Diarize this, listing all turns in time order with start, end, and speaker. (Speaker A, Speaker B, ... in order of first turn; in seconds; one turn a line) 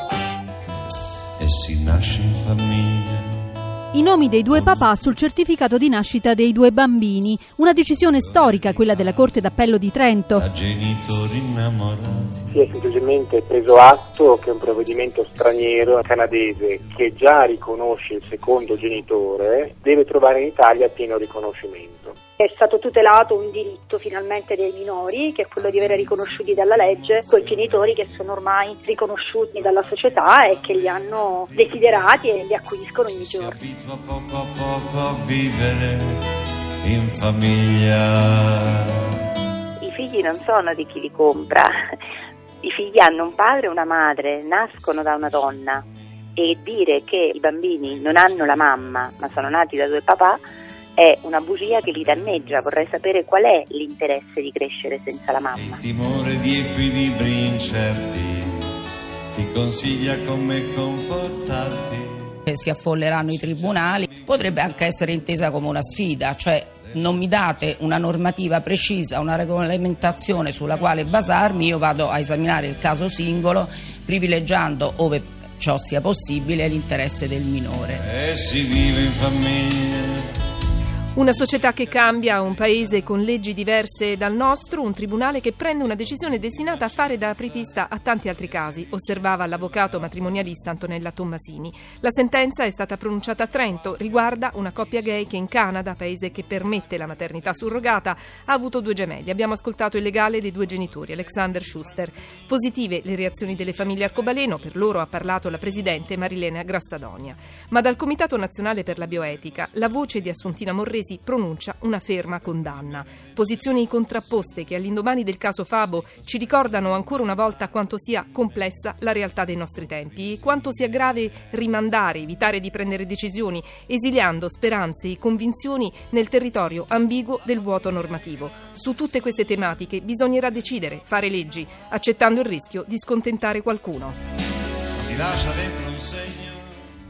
Speaker A: 1.4-3.3
Speaker B: 3.9-10.4
Speaker A: 10.3-12.5
Speaker C: 12.5-22.2
Speaker D: 22.4-33.6
Speaker A: 33.4-36.2
Speaker A: 36.8-38.9
Speaker E: 39.8-41.8
Speaker E: 42.6-45.8
Speaker E: 46.4-50.4
Speaker E: 51.0-55.8
Speaker A: 55.6-58.6
Speaker A: 59.4-62.2
Speaker F: 62.5-78.0
Speaker A: 63.5-65.2
Speaker A: 77.9-80.2
Speaker G: 81.2-134.2
Speaker A: 135.0-136.7